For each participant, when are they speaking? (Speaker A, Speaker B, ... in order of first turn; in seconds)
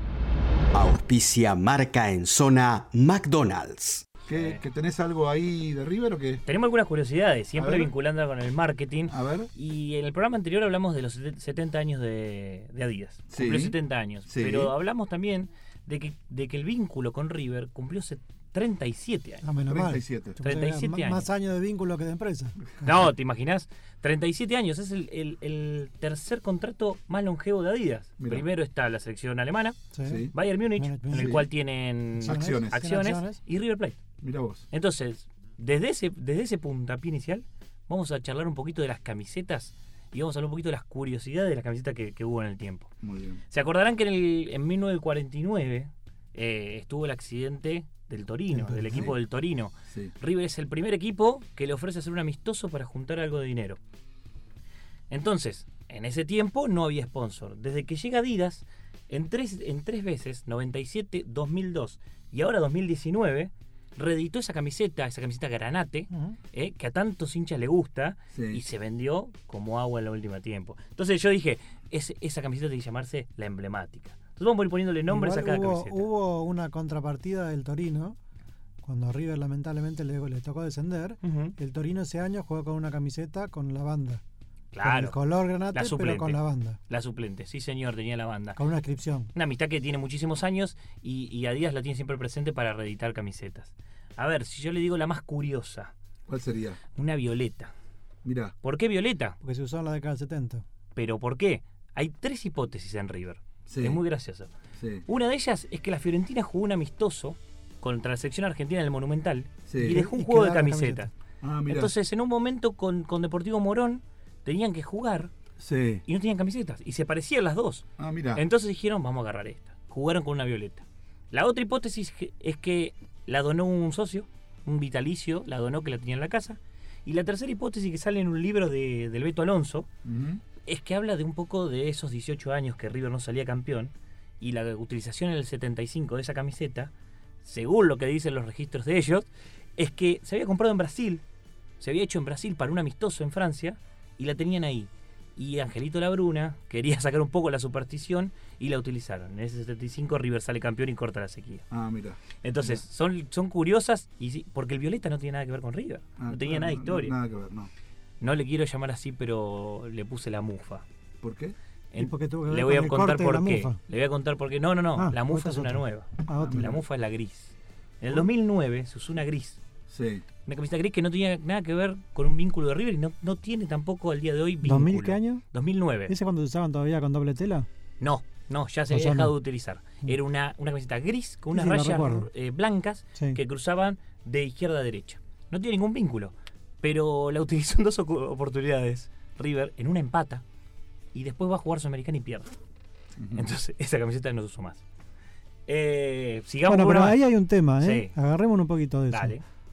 Speaker A: 0.7-4.0
Speaker B: 4.3-6.4, 7.5-7.9, 9.1-9.5, 13.3-13.8, 14.3-14.7, 19.7-20.4, 28.2-28.4, 30.0-30.3, 31.1-31.4, 32.2-32.8, 34.2-34.7, 43.0-43.4, 68.3-68.6, 96.3-96.8, 98.2-98.5, 103.7-104.0, 104.8-105.0, 109.7-110.0, 111.4-111.9, 115.6-116.0, 118.0-118.4, 130.1-130.4, 151.7-152.8, 156.2-157.7, 161.2-161.5, 166.4-166.8, 169.9-170.2, 193.2-193.5
Speaker C: 4.3-4.6, 6.5-19.4, 20.4-21.3, 22.8-29.8, 30.3-34.0, 34.7-42.9, 43.5-53.8, 55.1-76.1, 81.2-81.5, 84.7-85.2, 85.7-88.6, 89.3-95.9, 96.9-97.7, 98.6-99.3, 100.9-104.5, 105.1-111.1, 111.7-115.3, 116.0-129.9, 130.7-136.9, 137.4-141.2, 141.8-151.6, 152.4-157.1, 158.2-160.8, 161.9-169.6, 170.4-176.1, 178.0-190.4, 191.1-192.5, 193.3-194.8, 195.7-197.3, 197.8-198.1, 199.1-199.4
Speaker D: 19.4-22.9, 29.9-30.2, 30.8-31.4, 32.2-33.4, 48.5-49.1, 66.1-66.4, 75.1-78.2, 78.8-84.2, 84.8-86.8, 88.5-89.3, 99.4-100.6, 109.8-111.1, 162.0-163.8, 164.9-166.7, 174.6-175.4, 176.1-177.7, 178.9-179.3, 181.5-182.3, 196.6-199.3